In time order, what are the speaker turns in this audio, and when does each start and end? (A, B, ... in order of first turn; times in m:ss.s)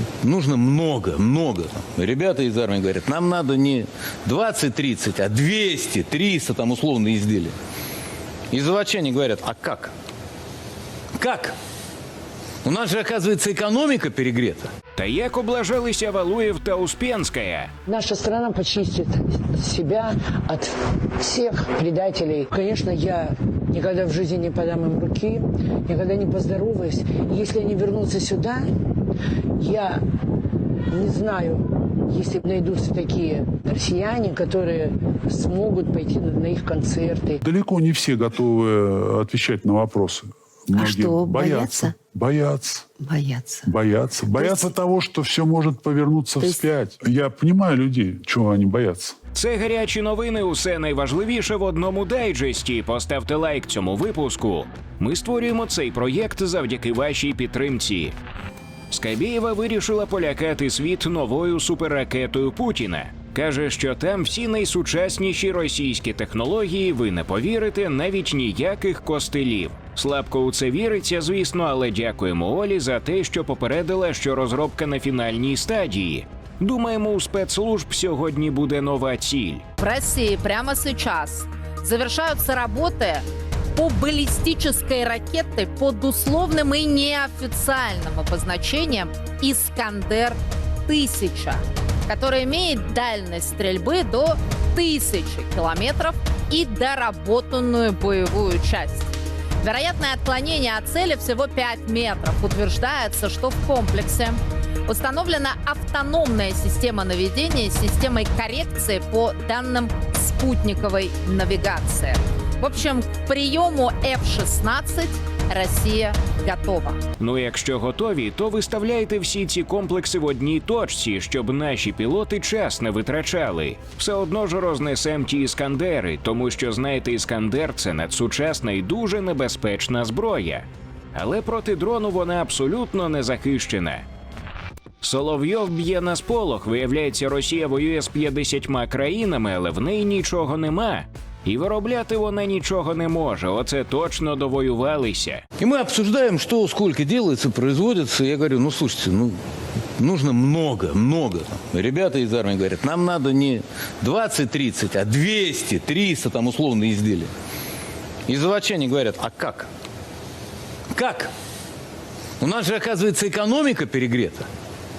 0:00.2-0:07.5 A
0:08.5-0:09.9 A
0:11.2-0:11.6 A
0:12.6-0:14.7 A
0:15.0-0:17.7 B
0:17.9-0:28.7 C
0:29.6-0:30.0 C
0:30.9-0:37.4 C
0:37.4-0:42.9 D
0:40.7-0:42.0 E
0:43.0-0:43.7 E
0:43.6-0:49.2 D
0:44.3-0:44.7 E
0:46.4-0:46.7 E
0:49.3-0:58.2 B
0:58.9-1:19.6 B
1:19.8-1:57.0 F
1:57.2-2:14.0 B
2:15.0-2:25.4 B
2:25.6-2:29.4 A
2:30.0-2:37.3 A
2:38.3-2:39.7 A
2:40.9-2:41.3 A
2:42.4-2:44.5 A